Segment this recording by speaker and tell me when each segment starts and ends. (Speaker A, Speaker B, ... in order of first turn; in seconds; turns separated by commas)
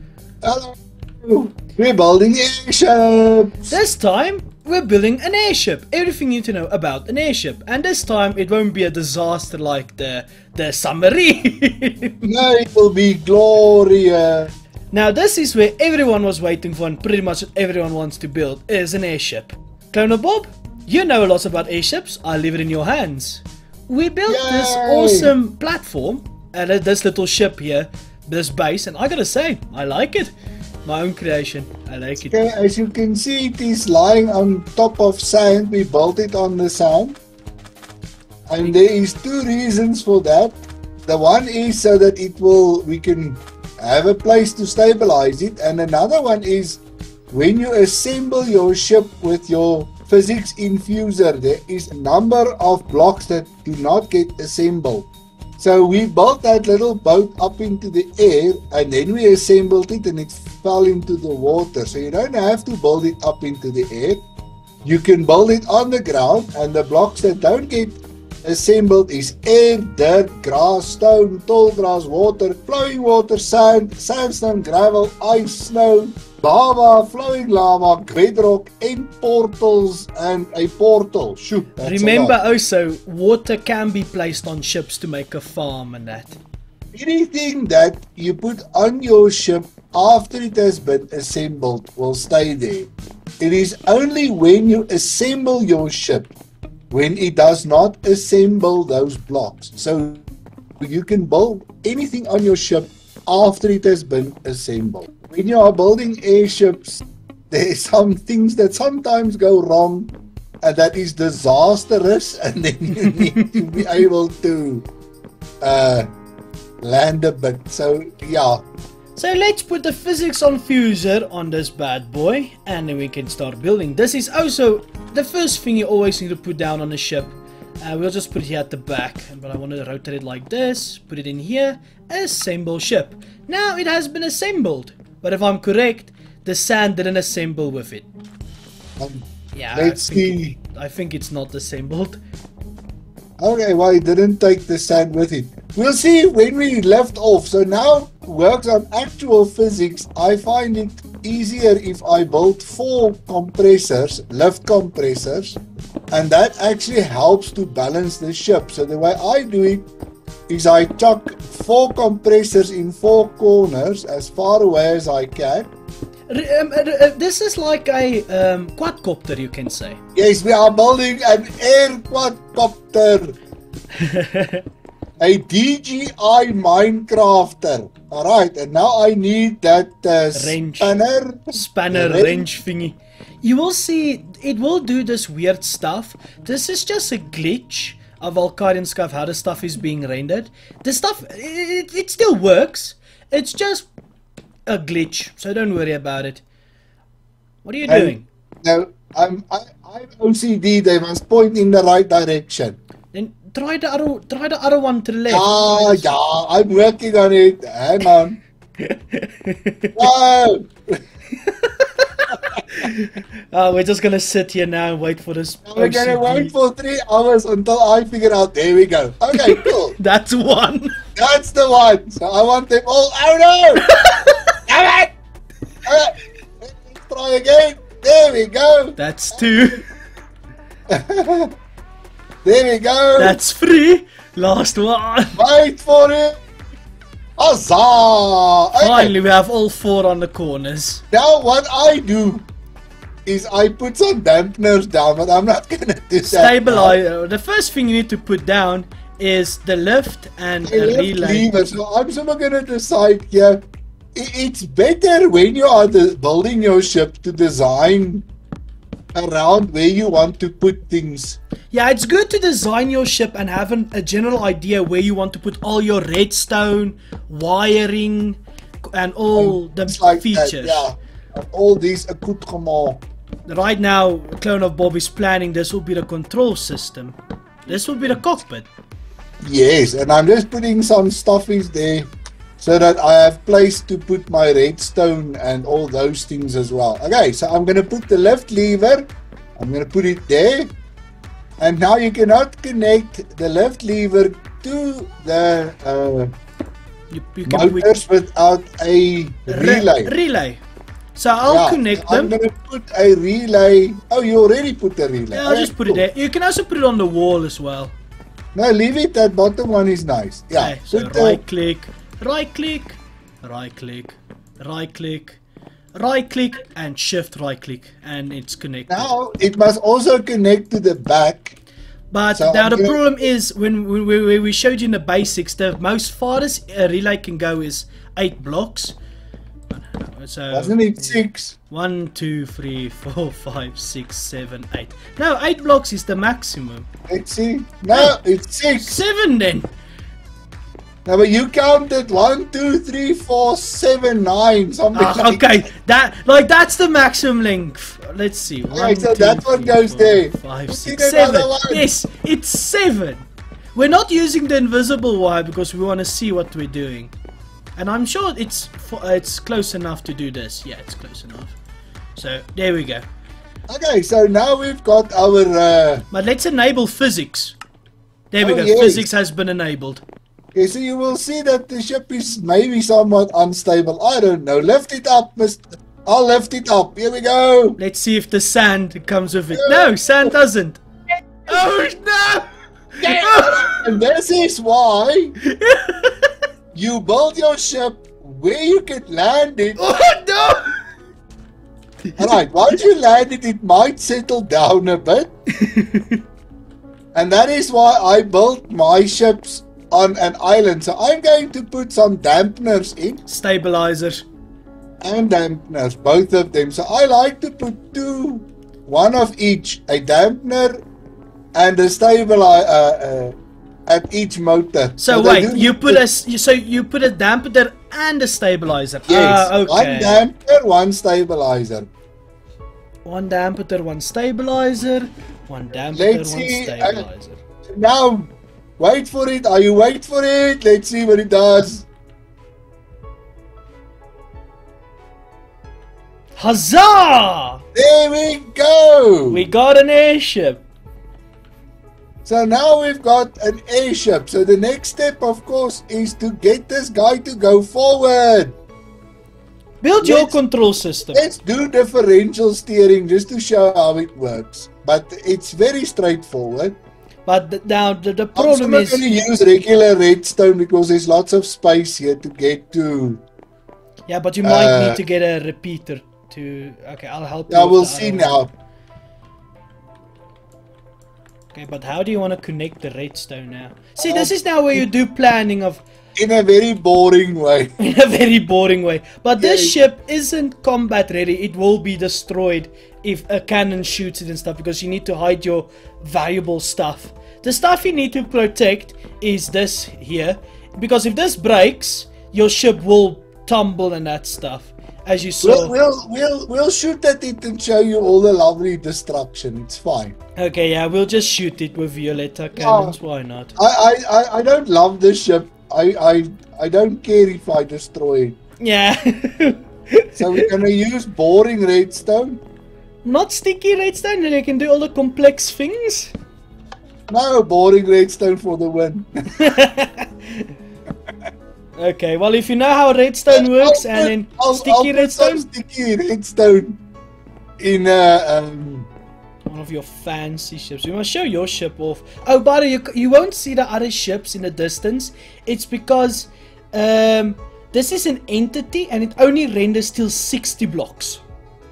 Speaker A: 0.4-3.8, Speaker B: 3.7-12.2, Speaker A: 12.2-14.5, Speaker B: 14.9-30.3, Speaker A: 24.3-25.3, Speaker B: 30.9-32.5, Speaker A: 32.2-37.2, Speaker A: 38.5-64.2, Speaker A: 64.8-82.4, Speaker B: 81.8-86.4, Speaker A: 86.9-96.3, Speaker A: 96.9-100.2, Speaker A: 100.8-114.9, Speaker A: 115.6-116.1, Speaker A: 116.8-118.7, Speaker B: 119.2-138.1, Speaker A: 139.0-140.6, Speaker B: 139.5-142.2, Speaker A: 143.4-155.6, Speaker A: 156.1-159.9, Speaker A: 160.5-165.7, Speaker B: 166.3-170.0, Speaker A: 170.2-173.4, Speaker B: 174.0-174.6, Speaker A: 175.2-182.5, Speaker B: 180.3-193.9, Speaker B: 194.7-196.4, Speaker B: 197.6-198.2, Speaker A: 197.9-202.8, Speaker B: 203.1-206.1, Speaker A: 205.3-208.4, Speaker B: 208.8-210.1, Speaker A: 210.0-210.7, Speaker B: 211.4-216.5, Speaker A: 215.7-220.0, Speaker B: 219.3-221.0, Speaker A: 221.2-223.9, Speaker B: 223.9-224.6, Speaker A: 224.7-225.1, Speaker A: 225.9-229.8, Speaker B: 229.0-229.8, Speaker A: 230.9-231.5, Speaker A: 232.4-233.4, Speaker B: 233.2-235.4, Speaker A: 235.4-236.4, Speaker A: 237.4-239.1, Speaker B: 238.8-241.0, Speaker A: 241.1-242.4, Speaker A: 243.3-247.0, Speaker B: 246.3-251.5, Speaker A: 250.7-253.6, Speaker A: 254.2-258.3, Speaker A: 259.1-261.4, Speaker B: 261.7-270.9, Speaker A: 269.4-273.0, Speaker B: 273.5-278.7, Speaker A: 277.7-278.2, Speaker A: 279.4-290.7, Speaker A: 291.6-296.3, Speaker B: 297.1-297.9, Speaker A: 297.5-300.1, Speaker B: 299.5-300.6, Speaker B: 301.1-302.4, Speaker A: 301.5-306.0, Speaker B: 305.3-307.9, Speaker A: 308.6-311.4, Speaker B: 310.6-315.4, Speaker B: 315.9-319.1, Speaker A: 318.9-321.6, Speaker B: 322.1-329.0, Speaker A: 322.3-323.2, Speaker B: 329.7-336.9, Speaker A: 330.5-331.6, Speaker A: 337.1-339.0, Speaker B: 337.9-338.2, Speaker B: 338.8-339.7, Speaker A: 341.1-345.6, Speaker B: 344.9-357.1, Speaker A: 348.7-351.8, Speaker B: 357.8-361.6, Speaker B: 362.2-363.0, Speaker A: 363.7-366.1, Speaker B: 366.1-367.6, Speaker B: 368.3-370.0, Speaker A: 368.4-369.1, Speaker A: 370.6-377.8, Speaker B: 377.8-380.8, Speaker A: 379.5-380.3, Speaker B: 381.5-382.4, Speaker B: 383.0-383.9, Speaker A: 383.0-385.4, Speaker B: 385.5-386.1, Speaker A: 386.7-389.9, Speaker B: 389.8-390.7, Speaker B: 392.1-392.4, Speaker A: 392.2-395.3, Speaker B: 395.6-396.2, Speaker A: 397.1-403.2, Speaker B: 403.3-404.2, Speaker A: 405.0-410.8, Speaker A: 411.5-413.3, Speaker A: 413.9-416.0, Speaker B: 415.0-420.2, Speaker A: 419.1-421.9, Speaker B: 423.1-427.4, Speaker A: 425.9-427.0, Speaker A: 427.8-431.9, Speaker B: 436.4-437.6, Speaker A: 437.8-439.5, Speaker B: 439.3-440.6, Speaker A: 442.2-448.6, Speaker B: 449.8-451.2, Speaker A: 450.0-450.4, Speaker A: 451.1-456.8, Speaker B: 457.3-459.1, Speaker A: 458.4-463.2, Speaker B: 464.1-468.4, Speaker A: 464.4-465.0, Speaker A: 467.5-468.5, Speaker B: 471.5-475.8, Speaker A: 474.0-474.8, Speaker A: 476.2-477.7, Speaker B: 477.8-495.8, Speaker A: 479.4-479.8, Speaker A: 495.4-500.2, Speaker B: 500.4-503.5, Speaker A: 502.6-502.9, Speaker A: 503.6-508.4, Speaker B: 508.6-510.5, Speaker A: 510.2-512.4, Speaker B: 513.0-516.1, Speaker A: 517.1-519.5, Speaker B: 519.4-520.5, Speaker B: 521.8-525.5, Speaker A: 523.3-526.8, Speaker A: 527.6-528.9, Speaker B: 529.5-541.2